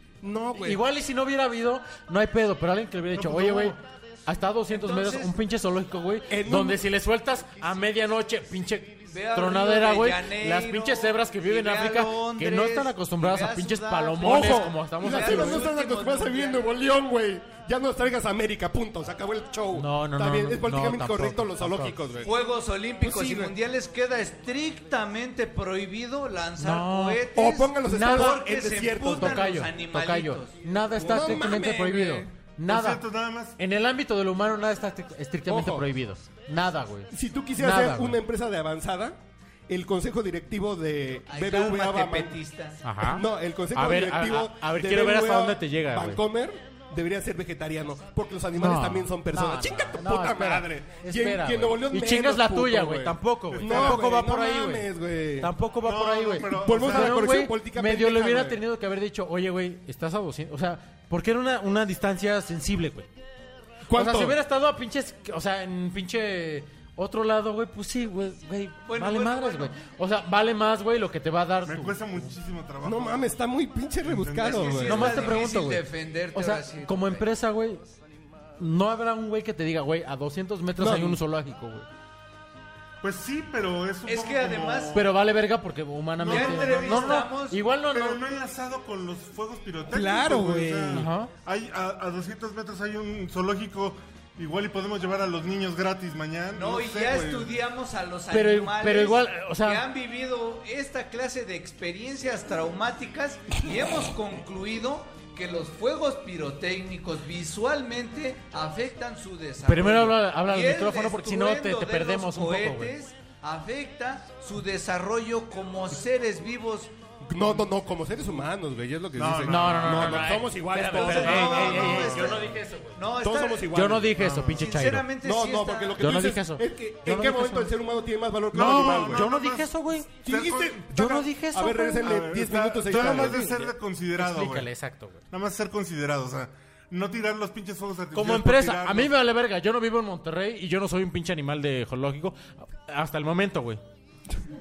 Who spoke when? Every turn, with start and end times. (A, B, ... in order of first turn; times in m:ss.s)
0:00.2-0:00.8 A
0:00.6-0:15.7 B
0:03.1-0:03.8 C
0:04.7-0:05.3 D
0:06.3-0:06.8 A
0:09.1-0:16.7 D
0:14.2-0:22.3 A
0:19.7-0:22.0 B
0:22.2-0:30.6 D
0:23.0-0:23.5 A
0:26.6-0:27.2 B
0:27.3-0:29.5 A
0:27.8-0:28.4 B
0:29.0-0:33.0 B
0:31.0-0:32.3 A
0:32.6-0:33.6 C
0:33.6-0:38.2 B
0:35.4-0:35.9 A
0:37.1-0:39.2 A
0:39.7-0:42.4 A
0:41.3-0:42.8 D
0:42.8-0:46.2 B
0:43.0-0:55.5 A
0:48.5-1:03.1 B
0:53.5-0:54.0 C
0:55.8-0:57.2 C
0:56.4-0:58.6 A
1:03.9-1:04.4 A
1:03.9-1:12.0 B
1:08.8-1:09.7 D
1:11.6-1:13.3 C
1:12.8-1:15.2 A
1:14.0-1:14.7 C
1:14.4-1:17.2 D
1:14.7-1:17.8 B
1:18.6-1:21.9 B
1:20.8-1:21.2 A
1:23.0-1:25.1 C
1:24.0-1:25.0 D
1:24.9-1:28.2 B
1:26.2-1:27.2 C
1:26.2-1:27.6 D
1:27.9-1:37.5 C
1:29.9-1:31.1 A
1:30.9-1:31.3 B
1:36.5-1:56.9 D
1:38.3-1:39.8 B
1:49.6-1:52.9 B
1:57.2-2:02.4 A
1:59.1-2:00.1 C
1:59.5-2:03.0 B
2:00.9-2:06.0 D
2:03.2-2:04.2 A
2:03.7-2:05.1 B
2:04.2-2:04.5 C
2:05.2-2:09.3 A
2:06.0-2:07.7 B
2:08.5-2:10.1 B
2:08.5-2:11.2 C
2:10.2-2:13.5 A
2:10.9-2:12.2 B
2:12.0-2:14.7 C
2:12.9-2:15.2 B
2:15.3-2:19.2 C
2:18.1-2:23.8 B